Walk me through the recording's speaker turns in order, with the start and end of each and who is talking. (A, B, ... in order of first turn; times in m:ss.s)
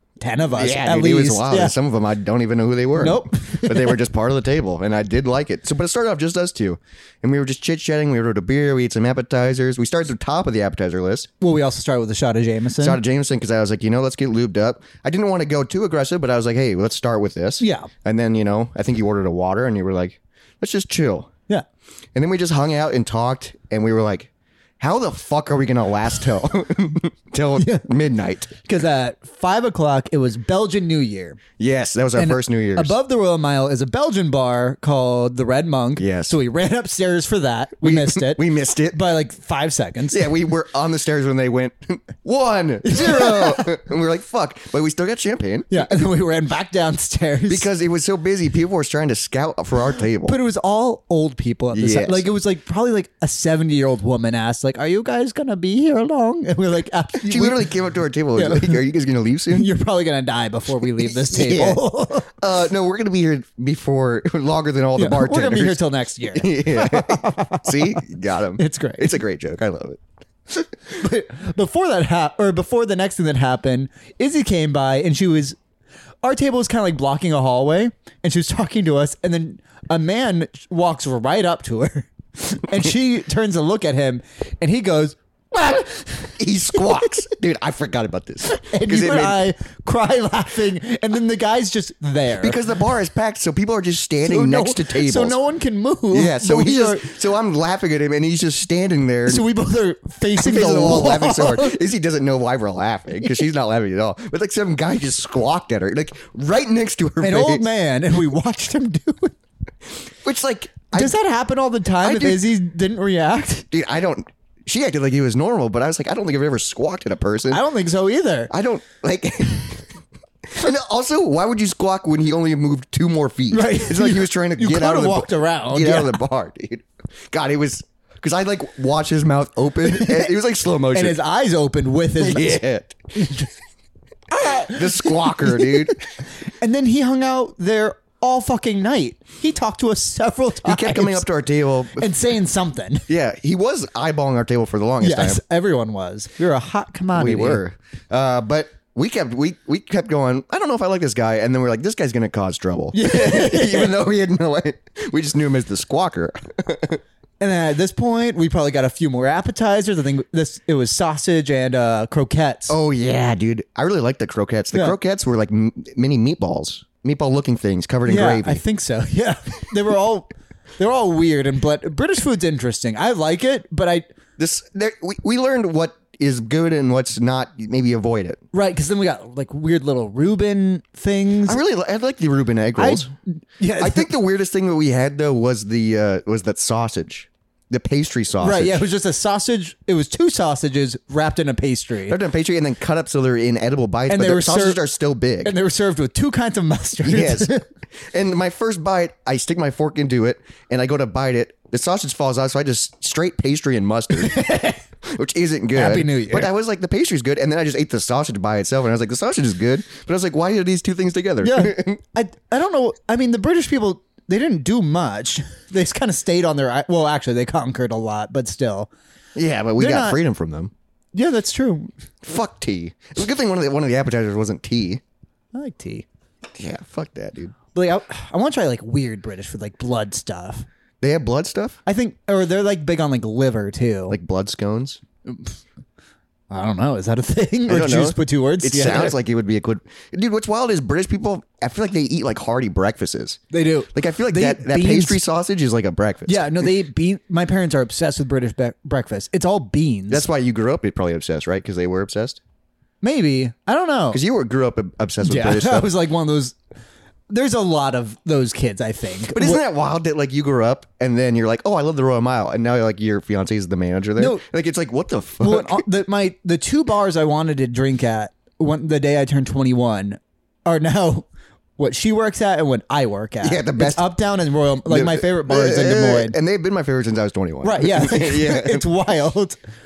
0:00.2-0:01.8 A
0:00.5-0:11.3 B
0:03.0-0:04.0 A
0:11.4-0:13.0 A
0:12.8-0:21.3 B
0:17.6-0:17.9 A
0:22.2-0:28.6 B
0:27.6-0:27.9 A
0:28.6-0:31.4 A
0:31.6-0:32.9 B
0:32.2-0:40.3 A
0:36.0-0:36.4 B
0:37.8-0:39.1 B
0:40.1-0:45.8 B
0:42.8-0:43.7 A
0:45.7-0:47.7 A
0:47.5-0:50.4 B
0:50.2-0:57.7 A
0:51.7-0:52.2 B
0:57.2-0:59.7 B
0:58.4-0:58.8 A
0:59.5-1:02.3 A
1:01.1-1:05.8 B
1:05.0-1:08.0 A
1:06.3-1:10.0 B
1:08.6-1:09.2 A
1:10.9-1:15.6 A
1:16.2-1:27.1 A
1:26.4-1:29.4 B
1:28.4-1:32.6 A
1:32.4-1:35.4 B
1:34.2-1:37.1 A
1:36.1-1:39.4 B
1:39.3-1:41.8 A
1:40.4-1:47.7 B
1:47.2-1:49.4 A
1:50.2-1:51.2 B
1:50.9-1:53.7 A
1:52.0-1:52.5 B
1:53.7-1:57.6 B
1:57.5-1:58.5 A
1:58.5-1:59.9 B
2:00.5-2:11.2 B
2:03.5-2:06.2 A
2:09.8-2:10.3 A
2:10.9-2:12.6 A
2:12.2-2:13.5 B
2:13.2-2:13.5 A
2:14.3-2:15.9 A
2:14.5-2:16.0 B
2:16.6-2:21.3 A
2:20.6-2:22.1 B
2:21.9-2:23.1 A
2:23.1-2:25.4 B
2:25.0-2:27.6 A
2:27.1-2:37.0 B
2:32.9-2:34.0 A
2:37.4-2:42.8 A
2:42.7-2:48.6 B
2:48.1-2:54.1 A
2:54.4-2:58.4 B
2:58.5-3:01.6 A
3:01.5-3:03.1 B
3:02.8-3:04.1 A
3:03.8-3:08.8 B
3:08.4-3:12.2 A
3:12.1-3:15.6 B
3:14.1-3:14.8 A
3:15.4-3:17.6 A
3:17.0-3:17.5 B
3:18.1-3:24.4 B
3:24.1-3:24.8 A
3:25.0-3:32.0 B
3:25.7-3:26.5 A
3:31.4-3:38.9 A
3:39.4-3:40.7 B
3:39.8-3:40.2 A
3:41.1-3:41.9 A
3:42.2-3:45.0 B
3:45.5-3:46.1 A
3:46.6-3:47.6 B
3:47.7-3:50.7 A
3:51.0-3:51.8 B
3:51.9-3:54.2 A
3:54.1-3:55.0 B
3:55.3-3:55.6 A
3:56.5-3:59.2 A
3:57.7-4:03.4 B
4:03.5-4:05.2 A
4:03.9-4:06.5 B
4:06.3-4:10.2 A
4:10.1-4:12.4 B
4:13.0-4:14.2 A
4:14.1-4:15.9 B
4:15.2-4:16.6 A
4:17.3-4:19.6 A
4:19.4-4:25.8 B
4:24.2-4:24.4 A
4:25.4-4:31.3 A
4:31.8-4:36.4 A
4:33.4-4:34.1 B
4:34.9-4:38.9 B
4:37.6-4:39.6 A